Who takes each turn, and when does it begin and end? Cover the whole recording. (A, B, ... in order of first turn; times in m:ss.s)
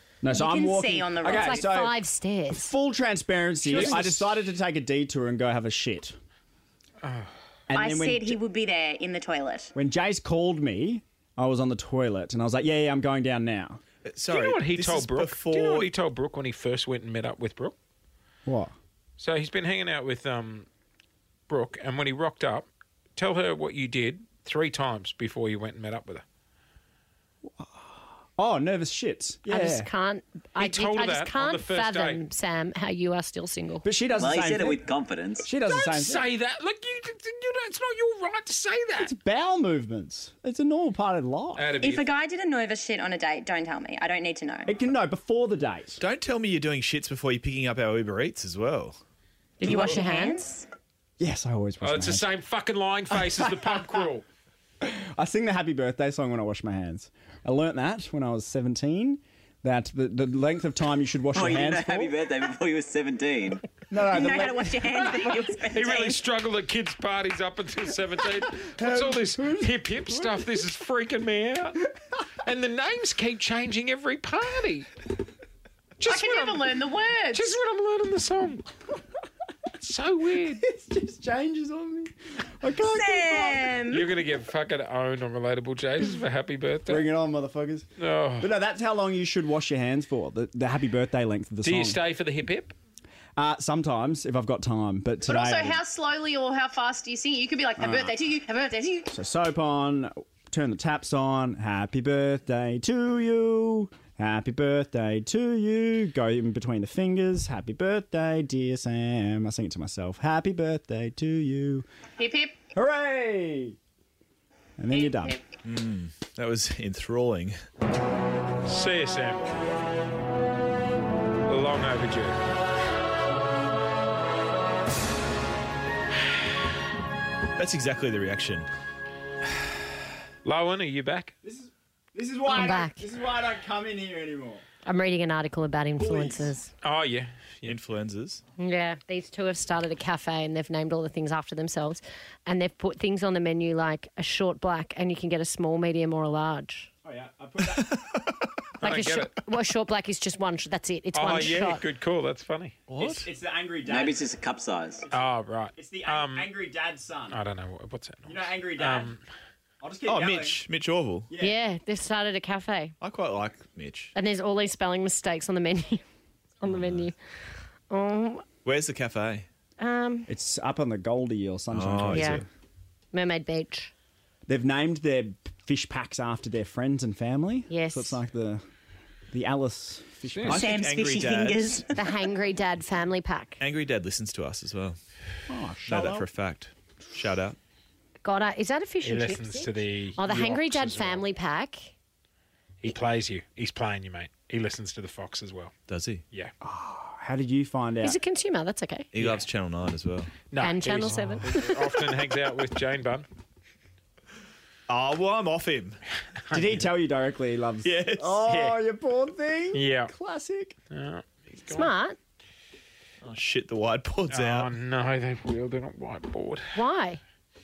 0:00.2-0:06.2 A
0:00.3-0:01.7 B
0:01.2-0:02.7 C
0:03.7-0:04.0 D
0:03.7-0:04.3 E
0:07.0-0:07.3 D
0:07.7-0:08.4 A
0:07.7-0:09.7 B
0:09.8-0:13.8 A
0:14.0-0:15.9 E
0:14.3-0:17.8 D
0:18.5-0:18.7 A
0:19.2-0:20.7 D
0:21.5-0:26.2 D
0:27.4-0:29.9 A
0:29.5-0:33.9 C
0:30.6-0:32.2 D
0:33.8-0:34.8 A
0:34.2-0:35.5 F
0:35.4-0:36.3 A
0:35.7-0:39.1 D
0:39.0-0:41.7 A
0:41.6-0:42.1 D
0:41.8-0:44.7 B
0:44.7-0:46.0 A
0:46.0-0:49.0 E
0:49.6-0:50.5 C
0:49.6-0:50.7 B
0:51.2-0:52.3 A
0:51.8-0:54.2 D
0:53.1-0:54.0 A
0:54.8-1:02.1 A
1:01.3-1:03.6 F
1:03.9-1:05.1 A
1:04.1-1:06.2 B
1:04.9-1:11.8 D
1:08.6-1:10.6 A
1:12.4-1:14.9 D
1:16.0-1:16.8 D
1:16.0-1:17.6 G
1:17.3-1:18.6 D
1:19.8-1:20.6 D
1:20.6-1:23.8 A
1:22.9-1:24.0 B
1:23.9-1:27.1 D
1:26.9-1:27.9 A
1:28.0-1:28.5 D
1:28.4-1:32.0 A
1:31.6-1:32.8 D
1:33.4-1:35.8 A
1:35.2-1:39.1 G
1:37.8-1:38.1 A
1:39.1-1:51.9 A
1:52.2-1:52.6 G
1:52.8-1:53.8 A
1:54.8-1:55.4 A
1:54.9-1:55.4 G
1:55.6-1:57.6 E
1:58.7-1:59.5 D
2:01.5-2:02.4 D
2:07.6-2:08.7 E
2:10.4-2:11.3 D
2:11.4-2:14.6 A
2:12.5-2:13.0 C
2:14.8-2:16.7 C
2:16.0-2:16.5 A
2:16.8-2:17.8 D
2:17.6-2:18.4 E
2:18.6-2:26.9 C
2:27.0-2:28.0 A
2:27.8-2:28.1 E
2:28.8-2:29.3 D
2:28.8-2:31.8 C
2:31.1-2:32.8 D
2:32.9-2:33.3 E
2:33.0-2:34.2 A
2:33.8-2:35.0 F
2:35.1-2:36.5 D
2:35.8-2:37.4 A
2:37.3-2:39.2 D
2:38.2-2:39.1 A
2:39.8-2:40.6 A
2:40.1-2:41.3 E
2:41.3-2:41.6 A
2:41.4-2:42.9 C
2:43.0-2:44.1 E
2:44.2-2:46.0 C
2:46.6-2:47.2 C
2:46.7-2:47.1 E
2:47.9-2:48.4 C
2:48.6-2:49.5 E
2:49.8-2:50.3 C
2:50.3-2:52.5 A
2:51.7-2:52.4 E
2:52.1-2:52.4 C
2:53.1-2:53.9 C
2:54.5-2:58.6 A
2:57.7-2:58.2 C
2:59.3-3:00.8 A
3:00.3-3:00.6 D
3:00.5-3:01.8 E
3:00.5-3:02.1 B
3:01.9-3:03.6 C
3:03.6-3:05.0 E
3:05.5-3:06.3 A
3:05.9-3:07.6 E
3:08.2-3:11.9 C
3:09.0-3:11.3 D
3:12.8-3:15.7 D
3:15.9-3:16.2 E
3:16.6-3:18.2 A
3:18.0-3:19.1 C
3:19.1-3:20.3 E
3:20.5-3:23.3 D
3:20.6-3:22.0 C
3:24.9-3:26.0 E
3:26.5-3:26.9 D
3:26.5-3:30.8 A
3:27.8-3:28.4 E
3:28.5-3:28.8 D
3:29.7-3:30.1 D
3:30.9-3:31.9 D
3:31.7-3:32.2 C
3:33.2-3:34.7 E
3:34.3-3:36.8 D
3:36.8-3:37.2 C